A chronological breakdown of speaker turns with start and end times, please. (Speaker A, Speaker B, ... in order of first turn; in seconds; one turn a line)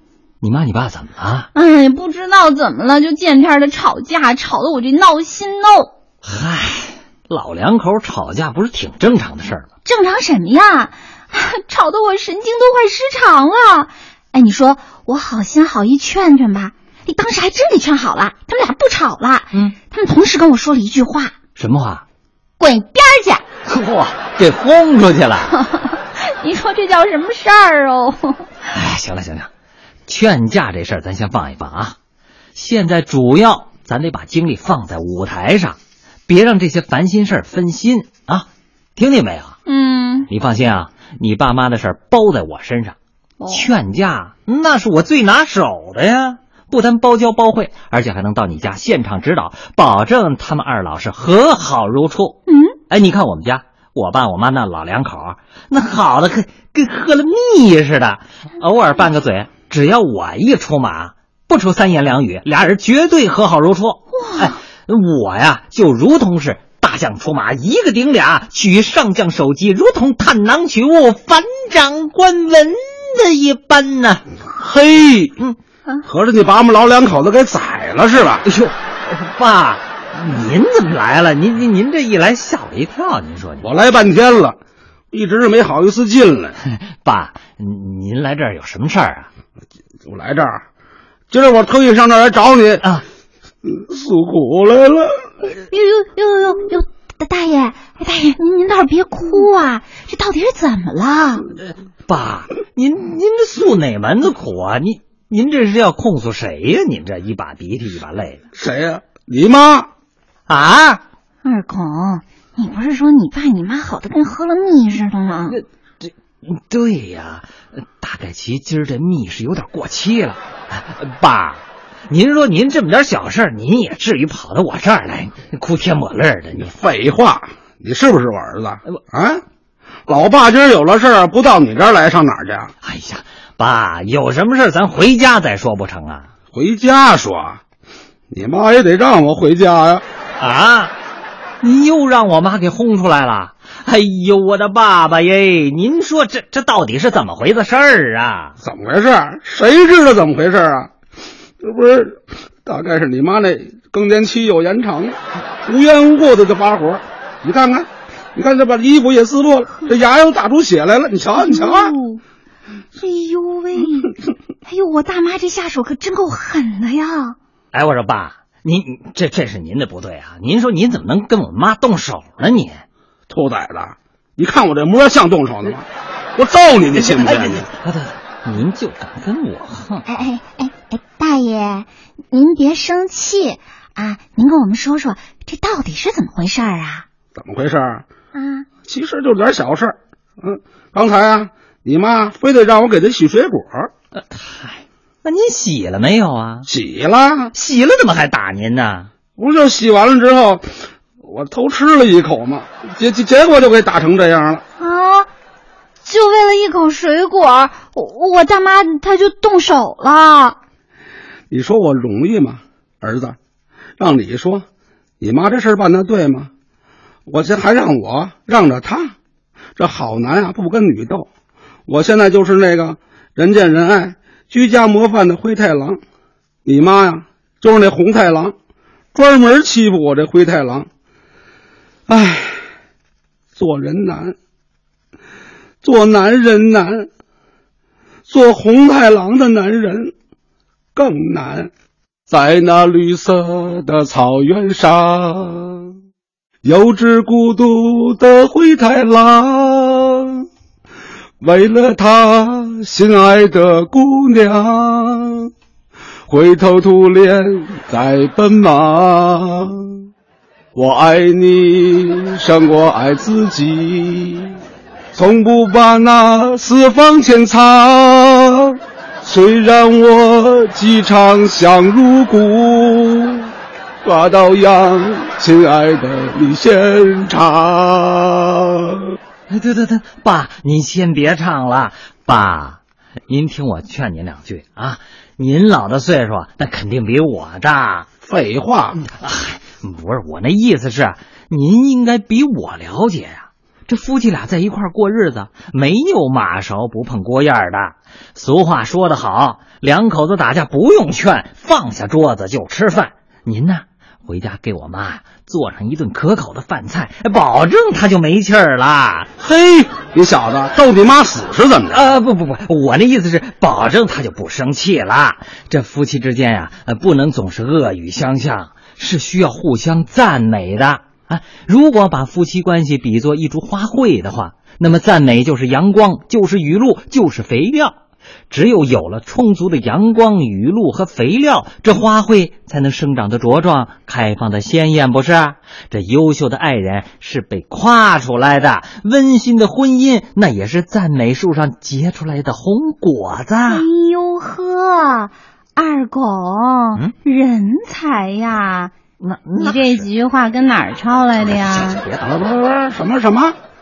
Speaker A: 0.4-1.5
Speaker B: 1.5-5.9
Speaker A: 6.2-9.7
Speaker B: 9.8-21.3
Speaker A: 21.6-22.0
Speaker B: 22.6-23.4
Speaker A: 23.7-25.6
Speaker B: 25.5-28.5
Speaker A: 28.7-29.5
Speaker A: 30.1-31.9
Speaker A: 32.5-39.6
Speaker B: 39.6-40.3
Speaker A: 40.3-43.0
Speaker B: 43.4-43.6
Speaker A: 43.5-74.3
Speaker B: 52.5-52.8
Speaker B: 64.1-64.6
Speaker C: 74.5-75.4
Speaker C: 76.0-78.4
Speaker A: 78.4-83.7
Speaker C: 83.6-84.6
Speaker C: 85.1-86.6
Speaker A: 87.0-89.3
Speaker C: 90.1-90.6
Speaker C: 91.3-92.9
Speaker C: 93.6-95.1
Speaker B: 95.7-101.5
Speaker A: 102.1-108.4
Speaker C: 108.5-109.9
Speaker A: 110.5-111.0
Speaker B: 111.4-115.6
Speaker A: 115.5-117.5
Speaker A: 118.0-126.7
Speaker C: 126.6-129.4
Speaker C: 130.1-132.7
Speaker A: 132.8-136.3
Speaker C: 136.5-137.6
Speaker C: 138.3-140.0
Speaker A: 140.4-140.9
Speaker A: 141.6-148.5
Speaker C: 148.6-150.9
Speaker C: 151.6-161.9
Speaker B: 161.4-162.2
Speaker B: 162.9-167.4
Speaker A: 167.7-172.8
Speaker C: 173.3-175.8
Speaker C: 176.4-177.7
Speaker A: 177.0-180.1
Speaker B: 180.1-187.1
Speaker C: 187.4-188.1
Speaker B: 188.3-188.7
Speaker C: 188.9-193.9
Speaker A: 194.3-196.7
Speaker C: 196.7-197.5
Speaker A: 197.5-199.1
Speaker C: 199.4-200.7
Speaker C: 201.2-204.6
Speaker B: 204.8-205.3
Speaker B: 206.0-210.6
Speaker C: 211.5-213.4
Speaker C: 214.0-214.6
Speaker C: 215.2-216.5
Speaker C: 217.3-219.1
Speaker C: 219.8-221.3
Speaker C: 221.9-226.0
Speaker C: 226.6-228.5
Speaker C: 229.1-230.9
Speaker C: 232.1-232.6
Speaker C: 233.6-234.3
Speaker C: 235.8-237.1
Speaker C: 238.3-240.1
Speaker C: 240.9-241.7
Speaker C: 242.3-245.9
Speaker C: 246.6-250.4
Speaker C: 251.4-255.5
Speaker C: 256.3-260.0
Speaker C: 260.8-264.6
Speaker C: 265.1-273.5
Speaker C: 274.0-279.1
Speaker A: 279.5-288.1
Speaker C: 288.2-289.0
Speaker A: 289.0-309.3
Speaker C: 309.4-312.0
Speaker A: 311.9-328.0
Speaker A: 328.5-343.9
Speaker B: 343.7-348.9
Speaker A: 349.2-350.1
Speaker B: 349.6-352.0
Speaker A: 351.4-352.3
Speaker C: 352.2-353.5